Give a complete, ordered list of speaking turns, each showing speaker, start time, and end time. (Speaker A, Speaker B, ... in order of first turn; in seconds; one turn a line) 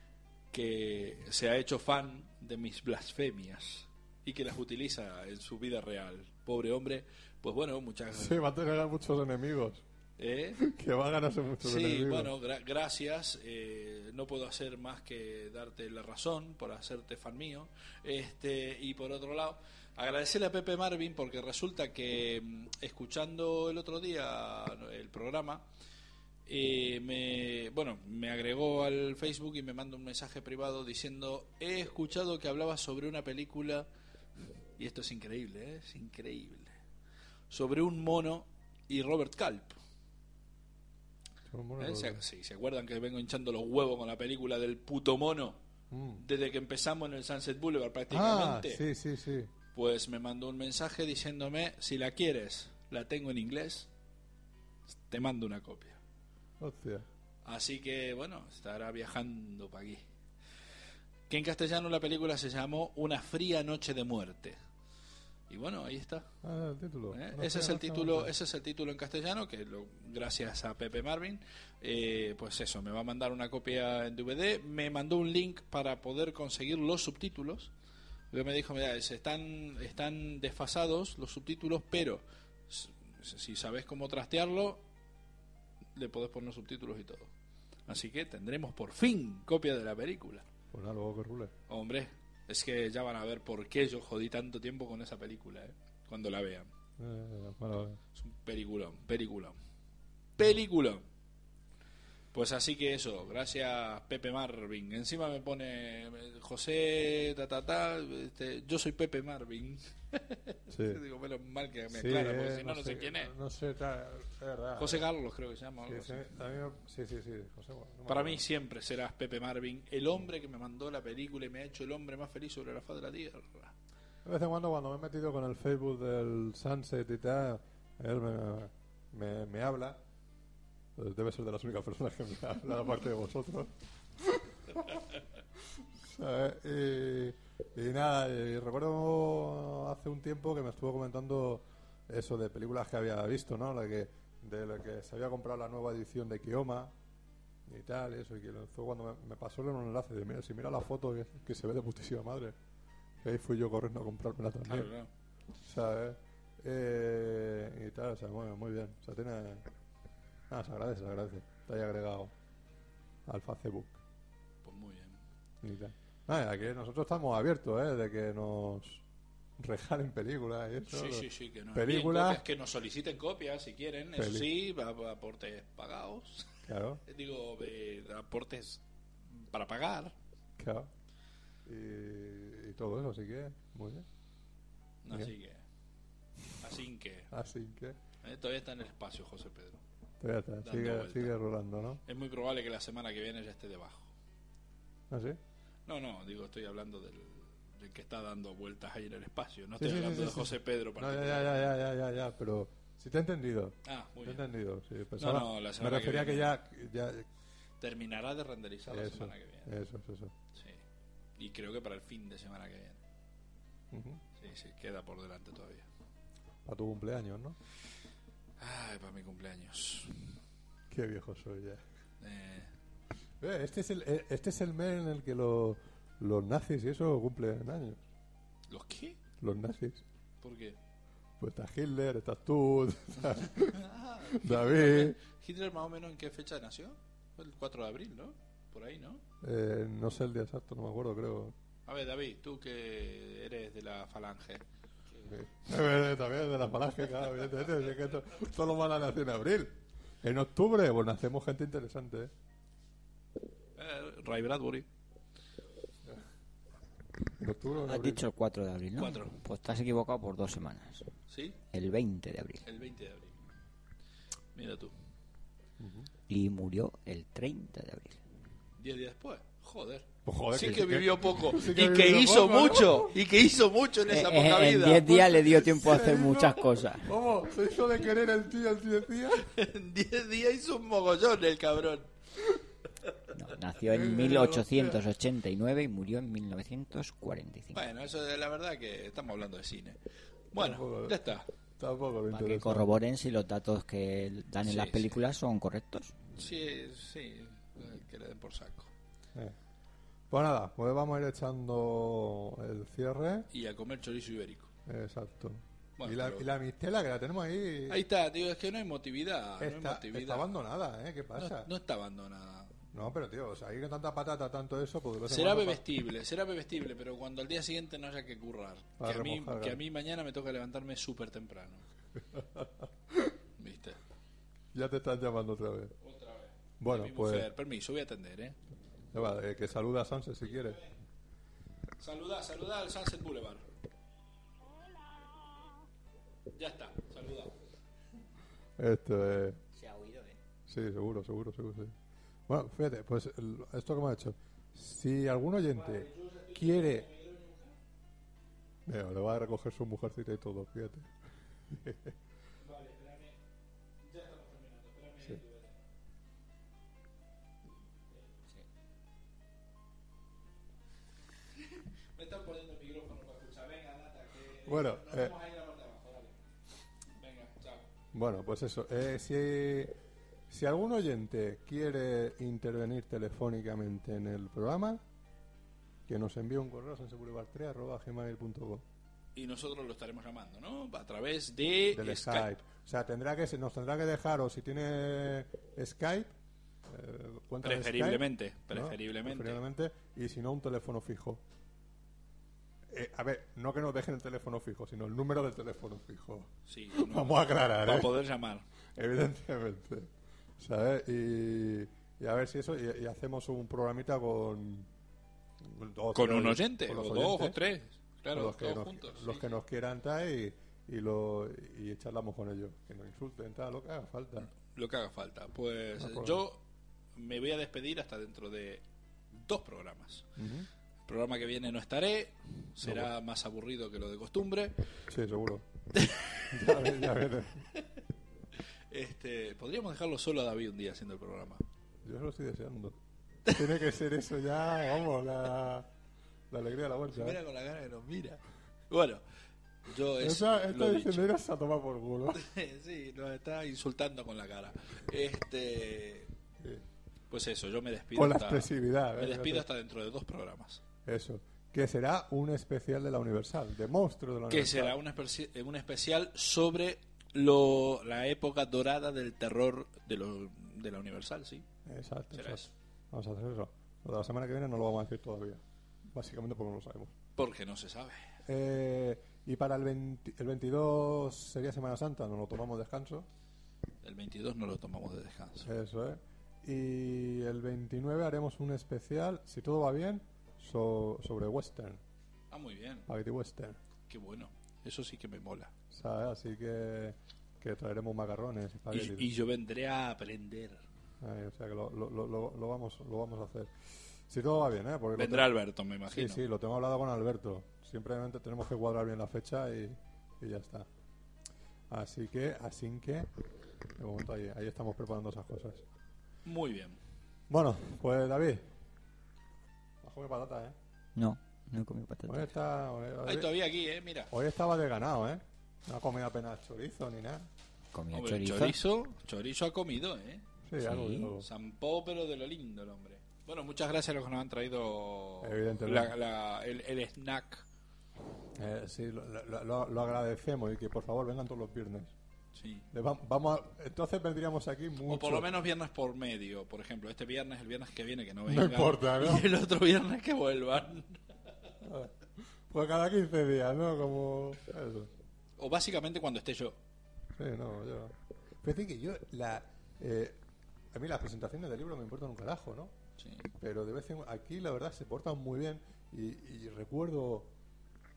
Speaker A: 0.5-8.4
Speaker B: 8.1-9.8
Speaker A: 10.2-10.6
Speaker B: 10.6-12.3
Speaker A: 11.6-25.6
Speaker A: 26.4-33.9
Speaker A: 34.8-36.7
Speaker A: 37.5-39.8
Speaker B: 41.5-42.2
Speaker A: 41.8-45.6
Speaker B: 45.9-46.2
Speaker A: 46.2-48.8
Speaker B: 48.1-49.5
Speaker A: 49.7-53.9
Speaker A: 55.1-56.0
Speaker B: 56.6-57.0
Speaker A: 57.4-60.0
Speaker A: 61.3-64.6
Speaker A: 65.5-66.3
Speaker B: 66.4-68.3
Speaker A: 67.1-77.7
Speaker A: 78.3-84.8
Speaker A: 85.9-87.3
Speaker A: 87.9-90.5
Speaker B: 90.7-91.5
Speaker A: 91.7-96.7
Speaker B: 97.0-98.0
Speaker A: 98.2-99.5
Speaker A: 100.4-101.0
Speaker A: 102.3-113.3
Speaker B: 110.7-111.0
Speaker B: 111.9-115.0
Speaker A: 114.8-116.3
Speaker B: 115.8-118.4
Speaker A: 118.1-123.7
Speaker B: 124.2-130.0
Speaker B: 130.9-135.1
Speaker B: 135.7-146.9
Speaker B: 147.7-152.6
Speaker B: 153.2-154.9
Speaker A: 154.6-155.1
Speaker B: 155.6-159.7
Speaker B: 160.5-162.3
Speaker B: 163.2-164.0
Speaker A: 164.6-165.2
Speaker B: 165.6-169.0
Speaker B: 169.6-172.4
Speaker A: 170.9-180.1
Speaker B: 174.2-174.5
Speaker B: 176.7-177.0
Speaker B: 180.6-180.9
Speaker B: 181.7-184.1
Speaker A: 185.0-185.6
Speaker A: 186.6-187.3
Speaker B: 187.3-188.0
Speaker A: 188.2-189.8
Speaker B: 190.2-192.0
Speaker A: 190.6-191.3
Speaker A: 192.1-194.1
Speaker B: 195.1-195.4
Speaker A: 195.8-201.7
Speaker B: 199.8-207.3
Speaker A: 203.8-204.4
Speaker A: 205.2-206.5
Speaker A: 207.8-209.7
Speaker B: 208.9-210.3
Speaker A: 210.5-210.8
Speaker A: 211.4-213.0
Speaker B: 213.9-214.2
Speaker A: 214.4-215.8
Speaker B: 216.6-217.6
Speaker A: 218.6-220.2
Speaker B: 220.9-221.8
Speaker A: 222.2-222.7
Speaker B: 223.4-228.0
Speaker A: 228.7-229.2
Speaker B: 229.4-230.0
Speaker A: 230.4-230.8
Speaker B: 231.4-235.2
Speaker A: 233.6-239.2
Speaker B: 239.4-241.5
Speaker A: 241.8-244.6
Speaker B: 245.2-252.3
Speaker A: 253.8-254.9
Speaker B: 257.4-258.2
Speaker C: 257.8-261.1
Speaker A: 259.0-259.4
Speaker A: 261.3-261.6
Speaker C: 261.7-262.6
Speaker A: 262.6-263.3
Speaker A: 264.5-264.9
Speaker B: 265.8-266.1
Speaker C: 266.3-268.2
Speaker A: 268.8-276.2
Speaker B: 270.2-273.1
Speaker C: 274.1-277.1
Speaker B: 275.8-279.5
Speaker A: 279.4-282.1
Speaker C: 283.3-287.8
Speaker B: 283.9-285.0
Speaker A: 287.7-290.0
Speaker A: 290.5-291.4
Speaker B: 290.6-292.9
Speaker C: 292.3-296.1
Speaker A: 294.6-295.2
Speaker A: 296.4-298.9
Speaker B: 300.3-303.5
Speaker A: 303.5-304.7
Speaker B: 304.9-308.0
Speaker A: 306.0-306.4
Speaker A: 307.9-310.5
Speaker B: 309.6-311.7
Speaker A: 311.4-312.9
Speaker B: 312.9-315.8
Speaker A: 315.3-321.8
Speaker B: 319.0-319.8
Speaker B: 322.3-323.4
Speaker A: 323.6-324.0
Speaker B: 324.7-325.9
Speaker A: 326.0-328.6
Speaker B: 326.8-327.5
Speaker B: 329.1-330.8
Speaker A: 330.4-331.0
Speaker A: 332.0-333.6
Speaker A: 336.5-337.5
Speaker B: 338.8-339.6
Speaker C: 339.7-340.4
Speaker B: 340.7-341.9
Speaker B: 342.5-347.1
Speaker A: 345.7-347.8
Speaker B: 348.9-351.1
Speaker B: 351.7-352.1
Speaker A: 352.6-353.4
Speaker A: 354.0-355.9
Speaker A: 358.1-358.3
Speaker A: 361.7-366.4
Speaker B: 364.6-365.4
Speaker A: 367.2-367.9
Speaker B: 368.1-369.9
Speaker B: 370.5-375.0
Speaker B: 376.1-378.8
Speaker A: 379.4-382.5
Speaker B: 381.9-386.3
Speaker B: 386.9-391.4
Speaker A: 387.6-389.6
Speaker B: 392.9-398.2
Speaker A: 396.7-398.6
Speaker B: 398.9-404.9
Speaker B: 405.6-407.6
Speaker A: 406.1-409.5
Speaker B: 408.3-414.5
Speaker A: 414.6-416.6
Speaker B: 416.0-416.4
Speaker A: 417.1-420.2
Speaker B: 420.4-420.7
Speaker A: 421.1-424.8
Speaker B: 422.8-423.1
Speaker B: 425.1-425.6
Speaker A: 425.9-426.9
Speaker B: 426.5-427.7
Speaker A: 427.7-428.0
Speaker A: 428.9-431.6
Speaker B: 432.0-435.9
Speaker B: 436.5-437.4
Speaker A: 437.1-439.2
Speaker A: 439.8-441.3
Speaker B: 440.2-442.4
Speaker A: 442.3-446.3
Speaker B: 446.6-446.8
Speaker A: 447.3-450.8
Speaker B: 448.1-449.6
Speaker B: 451.0-455.0
Speaker A: 454.5-461.6
Speaker B: 461.9-467.1
Speaker A: 462.3-462.7
Speaker A: 467.4-468.2
Speaker B: 468.4-473.3
Speaker A: 474.0-475.7
Speaker B: 475.6-482.0
Speaker A: 482.5-483.1
Speaker B: 483.1-483.8
Speaker A: 484.1-485.7
Speaker B: 485.9-489.3
Speaker A: 488.9-490.8
Speaker B: 491.2-493.7
Speaker B: 494.3-495.5
Speaker A: 495.1-496.4
Speaker B: 496.1-500.9
Speaker B: 501.9-503.3
Speaker B: 503.9-505.8
Speaker A: 506.4-507.0
Speaker B: 507.5-508.7
Speaker B: 510.0-510.8
Speaker C: 511.1-512.5
Speaker B: 512.3-513.5
Speaker A: 513.2-514.3
Speaker B: 514.3-517.5
Speaker C: 517.9-518.8
Speaker A: 518.1-520.4
Speaker B: 520.6-521.5
Speaker C: 520.8-521.3
Speaker A: 521.4-527.6
Speaker B: 525.4-526.1
Speaker B: 528.5-532.1
Speaker A: 532.5-532.9
Speaker B: 532.9-535.5
Speaker A: 535.1-541.4
Speaker B: 538.5-539.5
Speaker B: 541.8-545.1
Speaker A: 545.6-546.8
Speaker B: 547.3-550.4
Speaker B: 550.9-552.9
Speaker A: 553.2-553.5
Speaker B: 553.6-557.5